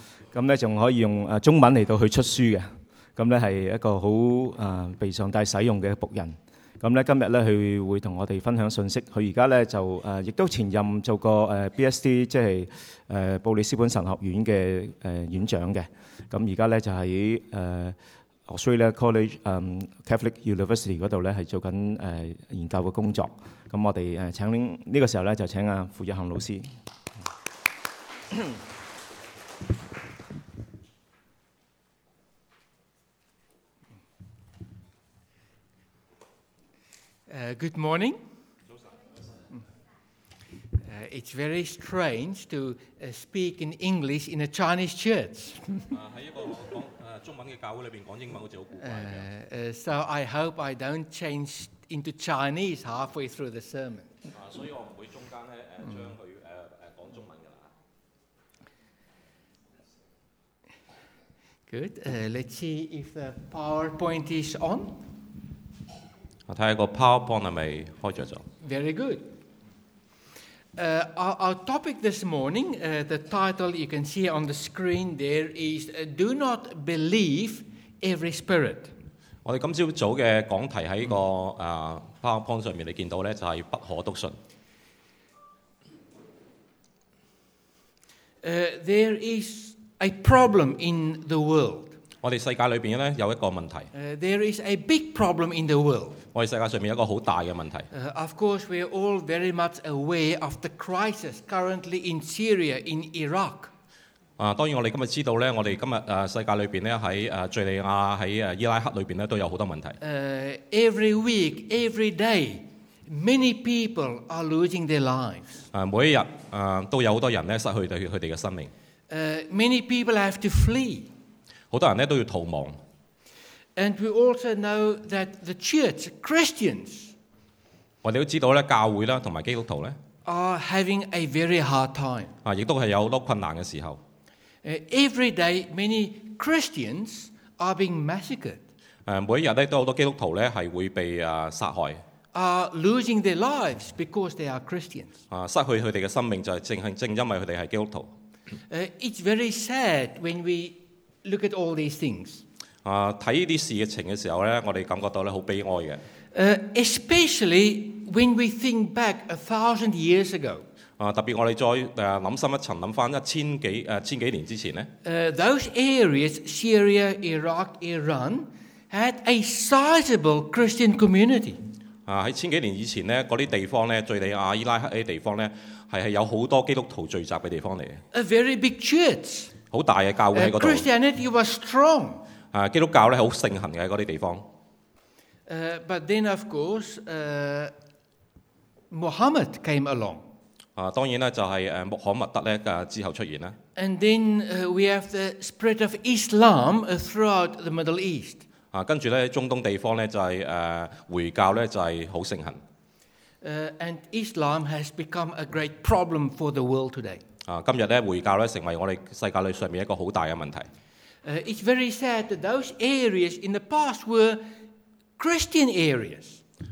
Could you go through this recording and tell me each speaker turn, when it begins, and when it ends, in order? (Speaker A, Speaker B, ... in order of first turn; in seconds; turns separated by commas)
Speaker A: 0.3-26.7, Speaker B: 37.3-38.2, Speaker B: 40.8-45.9, Speaker C: 45.9-49.3, Speaker B: 48.8-54.1, Speaker C: 54.4-57.7, Speaker B: 61.7-65.0, Speaker C: 66.5-68.5, Speaker B: 68.6-69.3, Speaker B: 70.8-78.9, Speaker C: 79.5-84.4, Speaker B: 88.4-92.0, Speaker C: 92.2-93.9, Speaker B: 93.9-96.2, Speaker C: 96.3-97.9, Speaker B: 97.9-103.7, Speaker C: 104.4-110.0, Speaker B: 110.0-115.7, Speaker C: 115.7-118.7, Speaker B: 119.1-121.1, Speaker C: 121.7-122.8, Speaker B: 123.8-127.1, Speaker C: 128.0-130.0, Speaker B: 130.2-132.3, Speaker C: 132.4-134.0, Speaker B: 134.6-138.6, Speaker C: 139.1-142.0, Speaker B: 142.3-145.1, Speaker C: 145.3-148.1, Speaker B: 148.7-152.4, Speaker C: 152.8-156.0, Speaker B: 156.3-160.6, Speaker C: 161.0-164.9, Speaker B: 165.0-171.6, Speaker C: 172.1-178.0, Speaker B: 178.1-179.5, Speaker C: 179.7-180.9, Speaker B: 180.3-182.2, Speaker C: 182.5-184.5, Speaker B: 185.5-187.7, Speaker B: 188.9-190.2, Speaker C: 190.8-193.6, Speaker B: 193.8-198.4, Speaker C: 198.7-202.6, Speaker B: 203.4-207.2, Speaker C: 207.4-210.7, Speaker B: 211.2-214.4, Speaker B: 215.2-216.4